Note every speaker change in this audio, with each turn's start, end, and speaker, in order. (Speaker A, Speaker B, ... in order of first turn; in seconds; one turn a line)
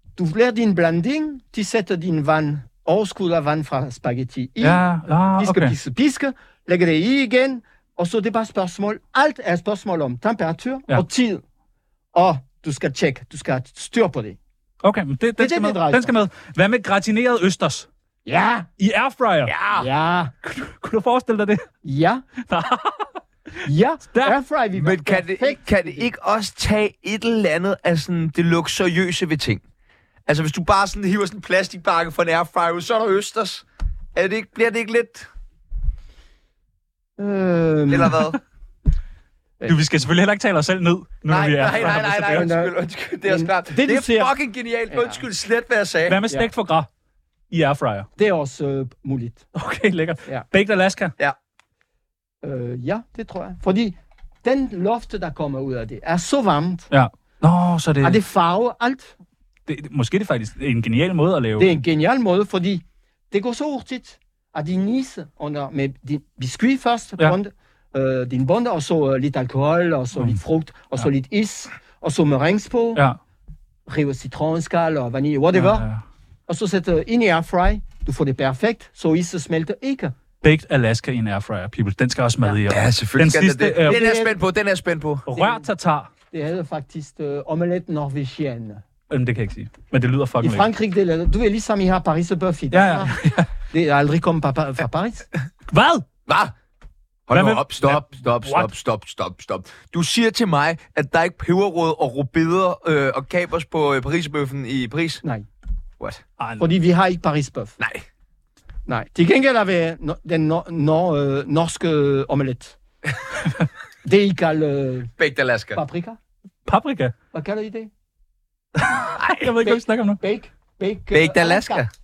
Speaker A: 0.2-4.8
Speaker B: 4.6-5.7
Speaker A: 5.4-11.4
Speaker A: 12.1-14.4
Speaker B: 14.8-17.9
Speaker A: 15.4-16.1
Speaker A: 18.3-18.7
Speaker B: 18.8-19.5
Speaker C: 19.5-19.9
Speaker A: 19.8-20.3
Speaker B: 20.4-21.6
Speaker A: 21.8-22.2
Speaker B: 22.5-23.1
Speaker A: 23.6-26.1
Speaker C: 24.8-29.6
Speaker C: 30.3-33.6
Speaker C: 34.1-35.3
Speaker A: 37.2-38.3
Speaker C: 37.9-38.4
Speaker B: 39.7-42.5
Speaker C: 41.3-46.2
Speaker A: 41.8-42.7
Speaker A: 43.3-44.3
Speaker A: 44.9-45.2
Speaker B: 46.1-46.9
Speaker B: 47.5-48.1
Speaker A: 48.2-49.5
Speaker B: 49.5-51.1
Speaker A: 52.4-56.9
Speaker B: 56.9-58.2
Speaker A: 58.0-59.1
Speaker B: 59.7-61.7
Speaker A: 61.6-73.0
Speaker A: 73.9-75.9
Speaker B: 75.5-76.0
Speaker A: 76.5-80.1
Speaker B: 80.4-84.0
Speaker C: 82.7-85.3
Speaker A: 83.8-84.3
Speaker B: 85.3-86.1
Speaker A: 85.3-85.7
Speaker A: 86.3-88.8
Speaker B: 89.1-90.7
Speaker A: 90.4-95.3
Speaker B: 92.7-93.5
Speaker B: 95.7-96.1
Speaker C: 96.3-96.5
Speaker C: 97.3-105.2
Speaker B: 97.3-98.7
Speaker B: 106.4-106.6
Speaker A: 106.6-107.8
Speaker C: 107.8-108.0
Speaker A: 108.9-112.8
Speaker A: 114.0-115.1
Speaker C: 115.2-115.8
Speaker A: 115.7-116.2
Speaker B: 116.7-117.1
Speaker A: 117.3-117.9
Speaker B: 118.8-120.2
Speaker A: 120.2-121.8
Speaker C: 121.1-121.9